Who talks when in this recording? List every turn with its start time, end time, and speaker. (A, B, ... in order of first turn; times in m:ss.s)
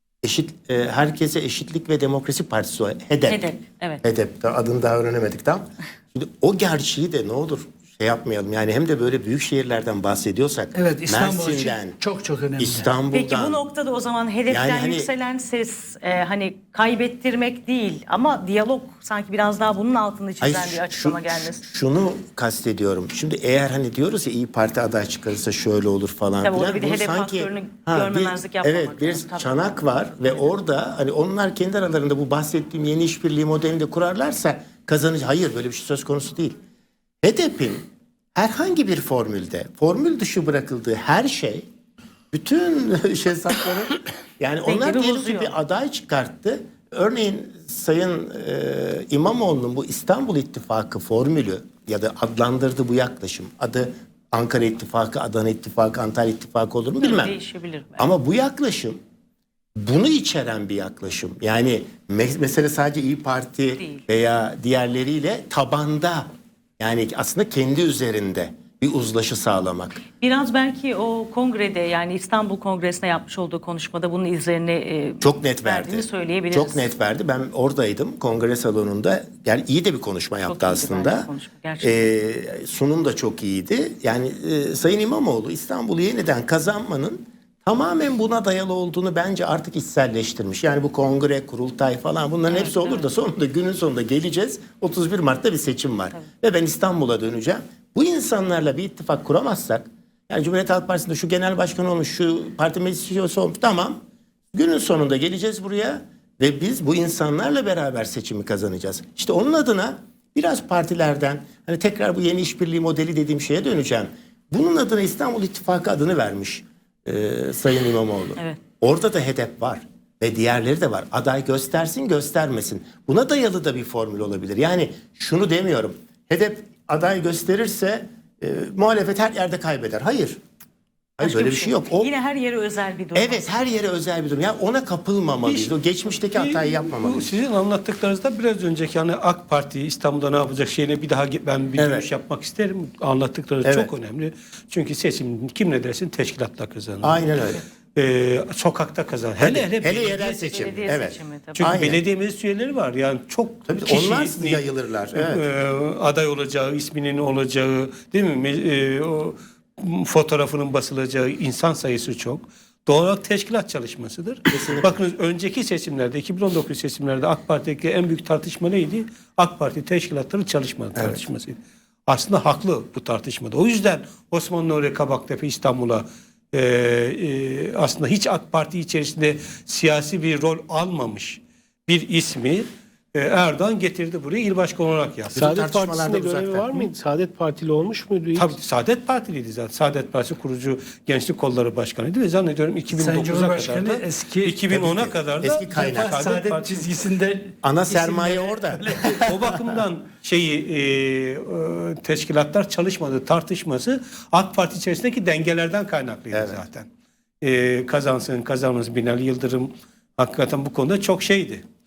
0:00.2-0:03.4 A
0:03.3-0:04.0 B
0:04.0-0:12.0 A
0:10.7-0:12.9 C
0:12.6-0:13.6 A
0:13.1-0:21.6 B
0:14.5-0:15.1 A
0:20.4-0:36.6 A
0:26.4-0:29.7 B
0:37.2-0:41.6 A
0:42.3-0:57.4 A
0:44.7-0:45.6 B
0:57.0-0:58.1 B
0:58.0-0:59.0 A
0:59.8-1:06.3 A
1:03.8-1:04.0 B
1:06.8-1:10.0 A
1:10.2-1:16.8 B
1:15.2-1:21.3 A
1:20.4-1:22.1 B
1:21.8-1:44.0 A
1:32.5-1:33.0 B
1:44.5-2:10.4 A
2:11.2-2:12.1 A
2:11.2-2:13.5 B
2:13.2-2:17.3 A
2:15.4-2:15.8 D
2:16.3-2:27.3 D
2:21.8-2:22.1 A
2:23.6-2:23.9 A
2:27.0-2:27.6 A
2:28.0-2:31.0 D
2:29.4-2:32.0 A
2:30.4-2:31.7 B
2:31.6-3:05.5 D
2:33.7-2:35.4 A
2:44.5-2:45.0 A
2:51.0-2:51.2 A
3:05.3-3:06.9 A
3:05.4-3:08.5 E
3:08.4-3:16.9 D
3:12.9-3:14.6 C
3:14.7-3:16.2 A
3:15.7-3:19.3 C
3:17.6-3:19.6 A
3:19.3-3:26.9 D
3:26.3-3:26.6 A
3:27.4-3:31.6 D